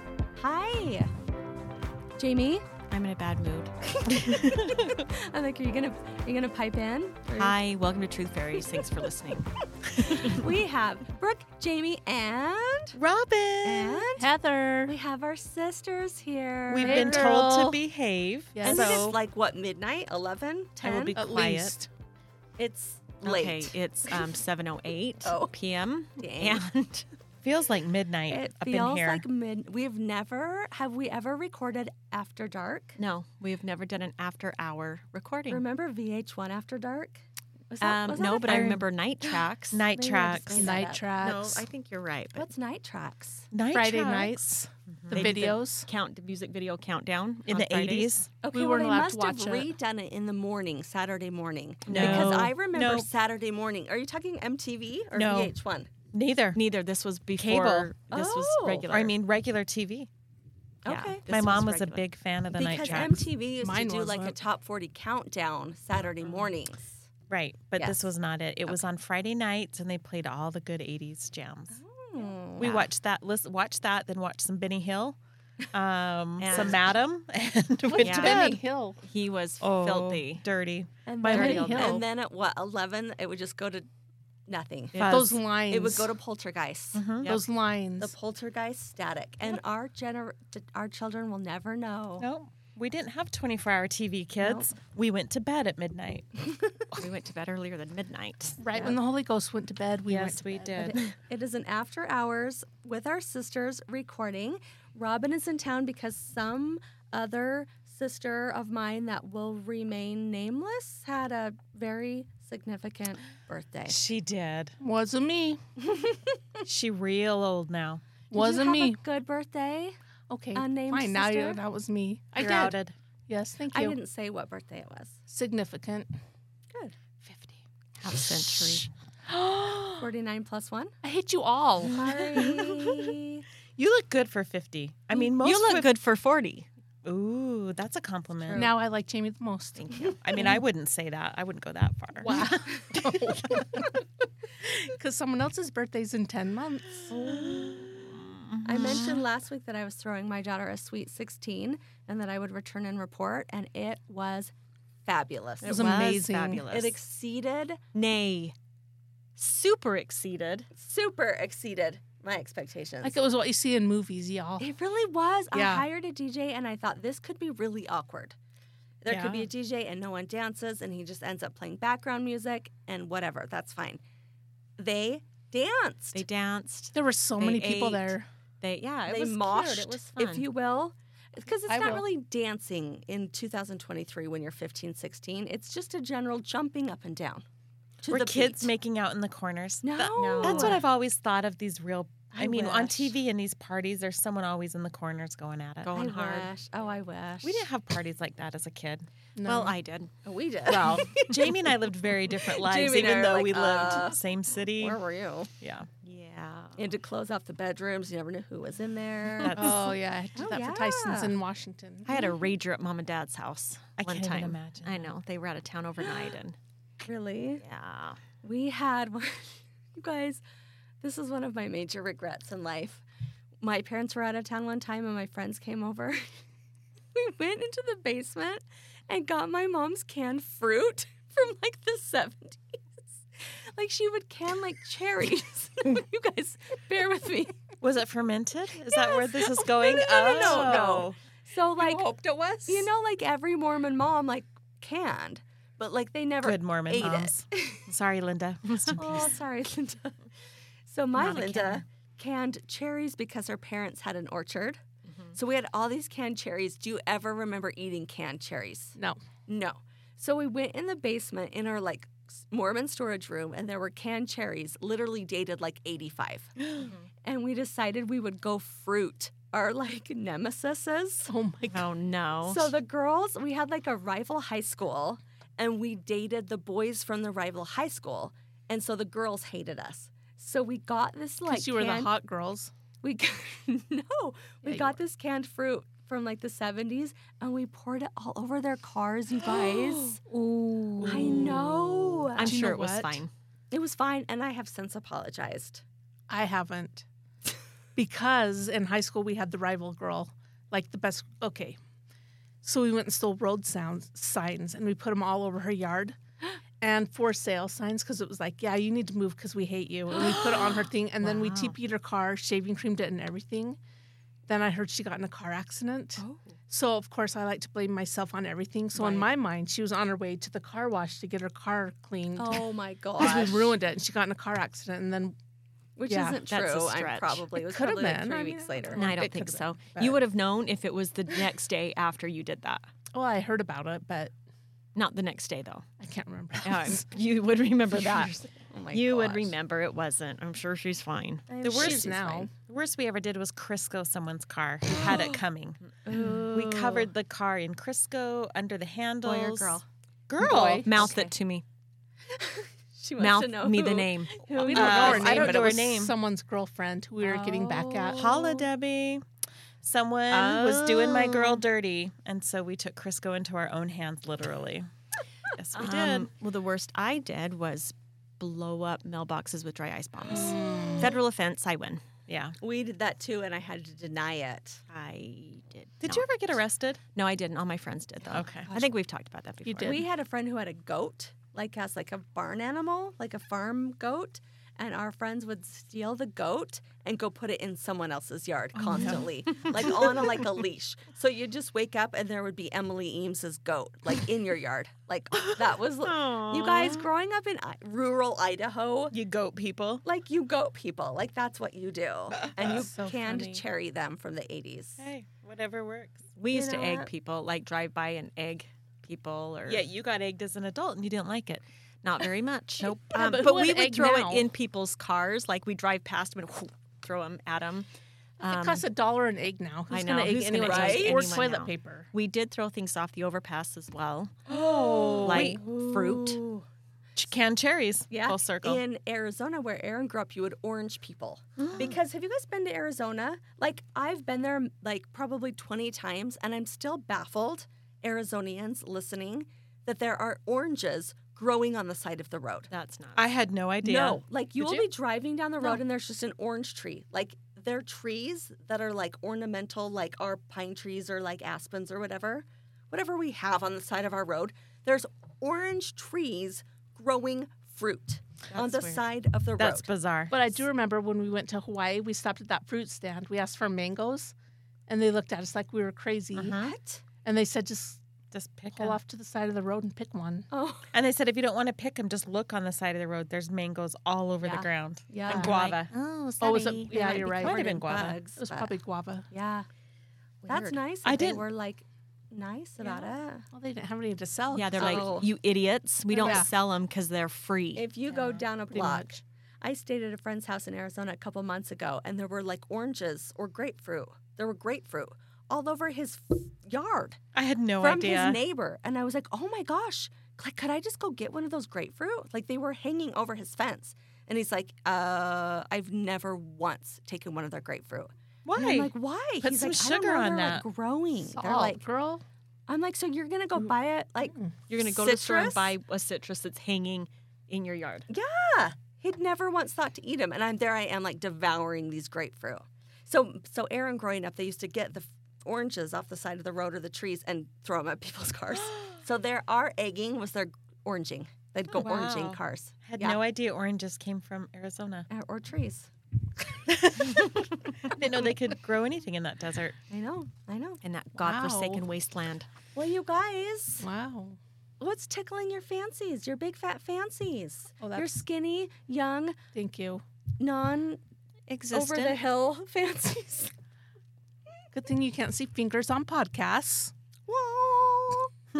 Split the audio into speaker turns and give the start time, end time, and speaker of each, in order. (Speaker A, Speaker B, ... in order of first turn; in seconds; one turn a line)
Speaker A: 0.4-1.1
Speaker A: 2.2-2.7
Speaker B: 2.9-3.7
Speaker A: 3.9-7.6
Speaker C: 4.2-5.0
Speaker B: 7.3-9.5
Speaker B: 10.0-10.4
Speaker A: 10.1-13.0
Speaker C: 12.9-14.1
Speaker A: 13.6-14.3
Speaker D: 14.2-14.9
Speaker A: 14.8-17.4
Speaker C: 16.7-19.2
Speaker D: 16.7-17.8
Speaker D: 18.5-19.0
Speaker A: 18.6-21.2
Speaker C: 20.8-21.9
Speaker D: 21.1-21.9
Speaker A: 22.6-23.8
Speaker B: 23.2-27.1
Speaker A: 25.2-25.6
Speaker A: 26.2-26.7
Speaker C: 27.4-29.2
Speaker A: 28.3-33.0
Speaker B: 33.0-35.6
Speaker A: 35.5-38.8
Speaker B: 37.8-39.9
Speaker C: 38.4-38.9
Speaker C: 39.7-40.7
Speaker A: 39.9-41.0
Speaker D: 40.5-41.7
Speaker B: 41.2-42.5
Speaker A: 42.3-43.5
Speaker C: 43.5-44.4
Speaker D: 43.7-45.9
Speaker C: 45.1-45.5
Speaker B: 45.1-48.1
Speaker C: 47.5-48.3
Speaker A: 48.4-55.9
Speaker D: 48.5-49.7
Speaker B: 51.9-52.5
Speaker C: 51.9-53.0
Speaker C: 55.1-55.5
Speaker C: 56.1-56.6
Speaker B: 56.5-59.1
Speaker C: 57.4-57.9
Speaker A: 58.1-59.0
Speaker C: 58.9-60.1
Speaker A: 60.8-61.2
Speaker B: 60.8-62.0
Speaker C: 61.3-63.3
Speaker A: 62.5-67.0
Speaker B: 62.6-63.1
Speaker D: 63.6-64.4
Speaker C: 67.3-71.8
Speaker A: 67.8-68.1
Speaker A: 71.7-72.8
Speaker C: 72.6-75.2
Speaker B: 72.6-72.9
Speaker C: 75.7-78.6
Speaker B: 76.4-76.8
Speaker A: 76.5-76.8
Speaker D: 77.8-79.0
Speaker B: 78.0-78.5
Speaker B: 79.0-80.4
Speaker C: 79.6-82.0
Speaker A: 81.1-83.9
Speaker D: 81.2-82.0
Speaker B: 81.3-81.7
Speaker A: 84.5-87.0
Speaker C: 84.9-85.4
Speaker D: 85.0-86.1
Speaker C: 86.9-87.3
Speaker B: 87.1-87.4
Speaker D: 87.2-88.1
Speaker A: 88.0-92.2
Speaker C: 92.2-96.4
Speaker A: 94.4-94.7
Speaker A: 96.5-96.7
Speaker B: 96.9-98.6
Speaker D: 98.6-101.0
Speaker C: 100.1-101.1
Speaker A: 100.8-114.0
Speaker C: 113.9-114.8
Speaker D: 114.8-115.6
Speaker A: 115.8-116.4
Speaker C: 116.6-118.0
Speaker D: 118.3-119.0
Speaker A: 118.3-120.0
Speaker D: 120.3-124.0
Speaker A: 120.5-121.6
Speaker C: 122.4-123.0
Speaker A: 123.7-125.2
Speaker D: 125.3-126.1
Speaker C: 127.3-127.5
Speaker A: 128.0-128.8
Speaker B: 128.1-128.8
Speaker D: 129.3-130.0
Speaker A: 129.9-130.9
Speaker D: 131.0-132.5
Speaker A: 131.8-133.4
Speaker C: 132.3-132.7
Speaker C: 133.8-135.9
Speaker B: 135.2-136.7
Speaker C: 137.0-138.7
Speaker A: 138.4-138.7
Speaker D: 138.5-140.4
Speaker B: 139.8-140.4
Speaker A: 139.9-140.5
Speaker C: 140.2-143.8
Speaker D: 142.2-144.0
Speaker A: 142.2-143.0
Speaker D: 144.9-147.1
Speaker A: 147.1-147.8
Speaker C: 147.3-149.2
Speaker A: 148.6-154.5
Speaker A: 155.0-156.1
Speaker B: 155.6-156.9
Speaker D: 155.7-156.7
Speaker A: 156.7-157.8
Speaker B: 157.9-158.5
Speaker B: 159.4-160.7
Speaker A: 160.7-163.2
Speaker D: 163.0-164.7
Speaker A: 164.6-168.3
Speaker D: 165.5-165.8
Speaker A: 169.0-174.0
Speaker C: 169.1-169.5
Speaker A: 174.8-176.2
Speaker B: 176.1-180.4
Speaker D: 176.9-178.3
Speaker A: 179.1-187.4
Speaker D: 181.7-182.1
Speaker A: 188.0-188.7
Speaker C: 188.1-195.9
Speaker A: 189.8-190.8
Speaker B: 190.1-190.8
Speaker A: 192.3-193.1
Speaker B: 192.6-192.9
Speaker B: 195.8-196.5
Speaker A: 195.9-197.7
Speaker C: 197.4-199.1
Speaker D: 199.3-199.8
Speaker B: 199.4-200.1
Speaker A: 200.2-201.6
Speaker D: 200.7-201.1
Speaker C: 200.7-205.0
Speaker A: 202.3-204.2
Speaker A: 204.8-205.5
Speaker C: 205.6-205.9
Speaker B: 206.0-206.8
Speaker A: 206.8-209.8
Speaker C: 209.4-209.8
Speaker D: 209.5-212.1
Speaker A: 210.3-211.4
Speaker B: 212.1-216.6
Speaker C: 214.0-215.1
Speaker A: 217.0-217.6
Speaker B: 217.6-218.2
Speaker A: 218.4-220.4
Speaker A: 221.0-223.0
Speaker A: 223.6-226.4
Speaker A: 227.1-237.6
Speaker C: 237.8-241.2
Speaker A: 238.9-242.1
Speaker D: 241.8-242.9
Speaker A: 242.7-247.8
Speaker C: 246.4-249.3
Speaker A: 248.9-250.2
Speaker A: 250.8-254.8
Speaker C: 251.1-251.8
Speaker A: 255.3-266.5
Speaker D: 258.9-259.2
Speaker B: 266.8-267.1
Speaker A: 267.2-271.3
Speaker D: 271.3-271.9
Speaker B: 271.7-272.7
Speaker A: 272.4-282.1
Speaker D: 281.4-282.7
Speaker A: 283.0-290.2
Speaker D: 284.6-284.9
Speaker D: 290.2-291.7
Speaker C: 291.0-292.2
Speaker A: 291.1-292.5
Speaker B: 291.1-291.6
Speaker B: 292.3-293.3
Speaker D: 292.4-293.2
Speaker A: 293.7-295.8
Speaker D: 296.3-297.1
Speaker D: 297.9-301.8
Speaker D: 302.6-306.2
Speaker D: 306.8-313.8
Speaker B: 310.2-311.7
Speaker D: 314.5-325.3
Speaker A: 318.9-319.2
Speaker A: 322.4-323.7
Speaker A: 326.0-329.0
Speaker D: 326.1-326.4
Speaker B: 326.5-327.4
Speaker D: 327.5-330.2
Speaker B: 328.9-332.8
Speaker D: 333.1-334.3
Speaker B: 334.9-335.8
Speaker D: 336.0-337.0
Speaker B: 336.6-341.5
Speaker A: 338.6-339.5
Speaker A: 341.5-342.4
Speaker D: 341.6-342.5
Speaker C: 341.6-345.8
Speaker A: 344.9-345.4
Speaker A: 346.0-347.0
Speaker B: 346.1-347.0
Speaker C: 346.3-351.1
Speaker A: 349.2-349.9
Speaker D: 350.4-350.9
Speaker B: 350.8-351.6
Speaker A: 350.9-351.3
Speaker A: 352.3-355.9
Speaker B: 353.2-355.3
Speaker C: 354.6-356.1
Speaker D: 354.7-358.2
Speaker A: 357.2-358.6
Speaker C: 358.1-359.2
Speaker C: 359.8-364.9
Speaker B: 360.3-361.6
Speaker C: 365.5-366.3
Speaker B: 365.7-372.0
Speaker D: 370.4-371.1
Speaker C: 372.3-372.6
Speaker A: 372.6-374.8
Speaker B: 374.9-376.5
Speaker C: 376.0-377.0
Speaker B: 377.1-380.0
Speaker C: 378.3-378.7
Speaker D: 379.6-380.0
Speaker A: 379.8-399.1
Speaker C: 388.8-390.5
Speaker B: 388.9-389.2
Speaker B: 396.1-397.0
Speaker C: 399.1-400.0
Speaker A: 400.0-405.0
Speaker C: 402.4-402.7
Speaker D: 402.6-403.6
Speaker C: 405.0-406.2
Speaker B: 406.4-409.8
Speaker A: 406.5-407.1
Speaker C: 409.7-411.6
Speaker B: 412.0-417.9
Speaker D: 412.8-414.5
Speaker B: 418.4-418.8
Speaker D: 418.4-422.1
Speaker B: 419.9-424.5
Speaker A: 420.6-421.2
Speaker A: 424.5-426.6
Speaker C: 424.5-425.6
Speaker B: 425.2-426.4
Speaker C: 427.2-428.8
Speaker A: 428.1-442.7
Speaker B: 431.7-431.9
Speaker B: 442.7-443.2
Speaker C: 443.1-444.9
Speaker A: 443.8-459.9
Speaker C: 458.5-459.0
Speaker C: 459.6-460.4
Speaker D: 460.3-464.3
Speaker D: 464.9-466.6
Speaker B: 466.3-466.7
Speaker A: 466.6-467.0
Speaker D: 467.2-468.0
Speaker C: 468.3-469.0
Speaker D: 468.7-470.5
Speaker A: 470.5-470.9
Speaker C: 470.9-475.9
Speaker A: 474.4-475.5
Speaker D: 475.3-475.5
Speaker B: 475.3-477.6
Speaker D: 476.4-477.6
Speaker C: 477.3-478.2
Speaker A: 477.4-478.8
Speaker D: 478.4-479.3
Speaker A: 479.3-479.7
Speaker B: 480.4-480.8
Speaker A: 480.4-483.4
Speaker C: 481.0-481.4
Speaker D: 482.8-485.1
Speaker B: 484.5-487.8
Speaker A: 484.8-485.3
Speaker A: 486.1-486.4
Speaker D: 486.2-486.5
Speaker A: 487.7-497.2
Speaker C: 488.1-488.4
Speaker D: 488.2-489.2
Speaker C: 497.3-498.4
Speaker A: 497.8-511.8
Speaker C: 508.4-510.6
Speaker D: 511.3-512.2
Speaker A: 512.7-515.7
Speaker B: 514.7-518.1
Speaker A: 518.1-533.2
Speaker C: 531.7-535.1
Speaker A: 535.1-535.9
Speaker C: 536.7-539.8
Speaker A: 537.0-537.3
Speaker A: 537.8-538.2
Speaker A: 539.9-540.8
Speaker B: 540.8-542.5
Speaker D: 541.1-541.8
Speaker A: 542.7-543.9
Speaker D: 543.8-544.4
Speaker A: 544.8-549.4
Speaker D: 547.8-548.1
Speaker D: 549.5-550.0
Speaker A: 550.4-551.0
Speaker B: 551.5-552.2
Speaker A: 551.7-553.5
Speaker D: 554.7-556.9
Speaker A: 557.3-558.3